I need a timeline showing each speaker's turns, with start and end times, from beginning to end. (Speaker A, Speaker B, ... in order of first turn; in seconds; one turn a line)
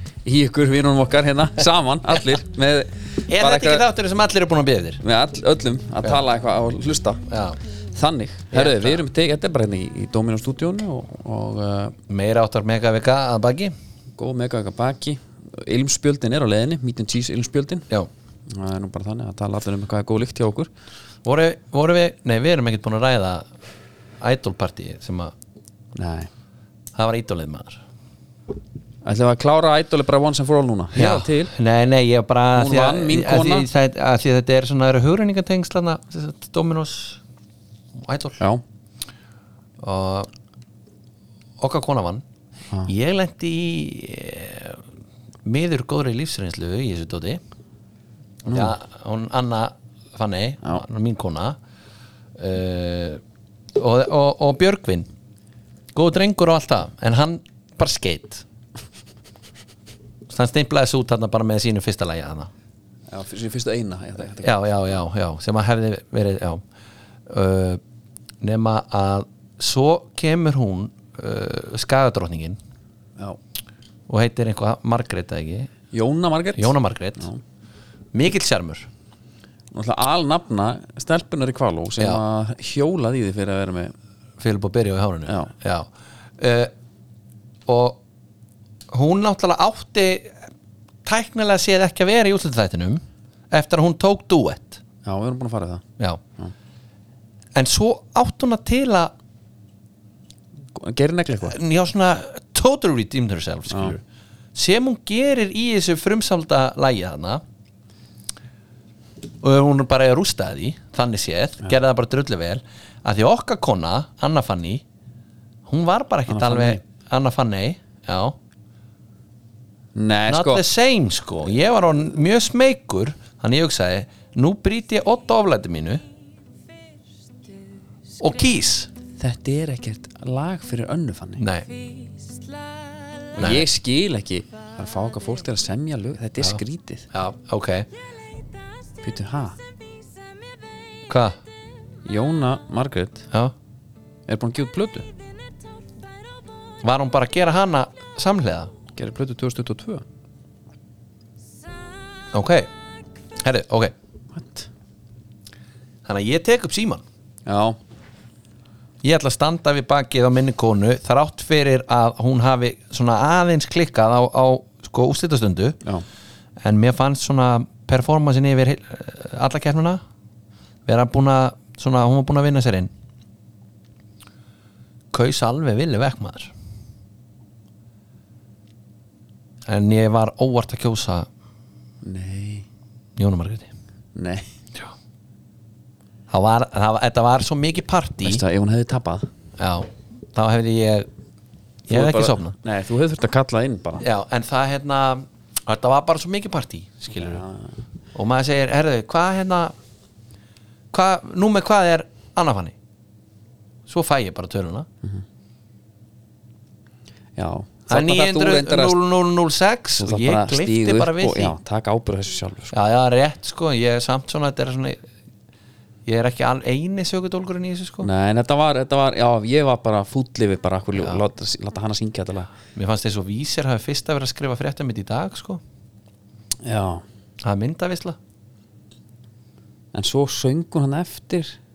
Speaker A: 0.2-3.8
Speaker B: 3.3-5.0
Speaker A: 5.0-7.3
Speaker B: 7.3-7.6
Speaker A: 7.9-11.9
Speaker B: 8.5-9.0
Speaker B: 12.1-13.7
Speaker A: 14.2-17.9
Speaker A: 18.5-20.7
Speaker B: 21.2-23.5
Speaker B: 24.2-25.3
Speaker A: 25.9-26.3
Speaker B: 26.9-27.8
Speaker A: 29.0-31.5
Speaker B: 30.9-37.2
Speaker A: 32.5-33.7
Speaker B: 38.0-38.4
Speaker B: 39.8-40.3
Speaker B: 41.6-42.2
Speaker B: 42.8-44.8
Speaker B: 45.5-47.4
Speaker A: 48.5-48.8
Speaker B: 48.5-51.6
Speaker B: 52.4-53.2
Speaker B: 53.8-55.1
Speaker B: 56.0-58.4
Speaker B: 60.3-62.5
Speaker A: 63.1-64.5
Speaker B: 64.4-66.6
Speaker B: 67.3-67.8
Speaker B: 68.4-72.6
Speaker B: 74.1-75.7
Speaker A: 75.9-77.4
Speaker B: 76.6-77.3
Speaker B: 78.1-78.9
Speaker A: 79.7-83.9
Speaker B: 84.4-86.7
Speaker B: 87.7-88.0
Speaker B: 88.9-90.4
Speaker B: 91.1-94.8
Speaker A: 95.0-95.8
Speaker B: 97.5-99.1
Speaker A: 100.8-101.6
Speaker B: 101.4-104.0
Speaker A: 103.7-104.0
Speaker B: 104.5-107.4
Speaker B: 109.4-114.8
Speaker B: 115.7-118.4
Speaker A: 116.3-116.8
Speaker A: 120.0-120.6
Speaker B: 120.3-126.0
Speaker B: 128.2-128.9
Speaker A: 129.2-131.5
Speaker B: 131.4-131.7
Speaker B: 133.3-133.7
Speaker A: 133.3-137.1
Speaker B: 136.4-137.9
Speaker A: 139.0-139.6
Speaker B: 141.1-141.4
Speaker A: 142.1-143.3
Speaker A: 144.3-145.1
Speaker B: 146.8-148.7
Speaker A: 148.9-150.0
Speaker B: 152.3-152.7
Speaker B: 153.4-153.9
Speaker A: 154.3-154.7
Speaker B: 156.1-157.0
Speaker A: 157.4-157.8
Speaker B: 159.0-165.8
Speaker B: 166.6-170.0
Speaker B: 170.9-172.9
Speaker B: 175.1-176.5
Speaker B: 179.7-181.3
Speaker A: 182.0-182.7
Speaker B: 183.2-183.7
Speaker A: 184.1-184.5
Speaker B: 186.3-188.4
Speaker A: 188.2-189.3
Speaker B: 189.6-191.1
Speaker B: 191.9-192.5
Speaker A: 191.9-194.1
Speaker B: 194.0-197.4
Speaker A: 197.2-197.8
Speaker B: 198.1-199.7
Speaker B: 200.9-202.8
Speaker B: 203.9-204.9
Speaker A: 207.4-209.0
Speaker B: 207.9-211.6
Speaker A: 210.0-212.7
Speaker B: 212.7-215.0
Speaker B: 216.1-218.1
Speaker A: 218.0-222.5
Speaker B: 222.8-225.6
Speaker A: 226.6-227.0
Speaker B: 227.4-228.2
Speaker A: 229.9-231.6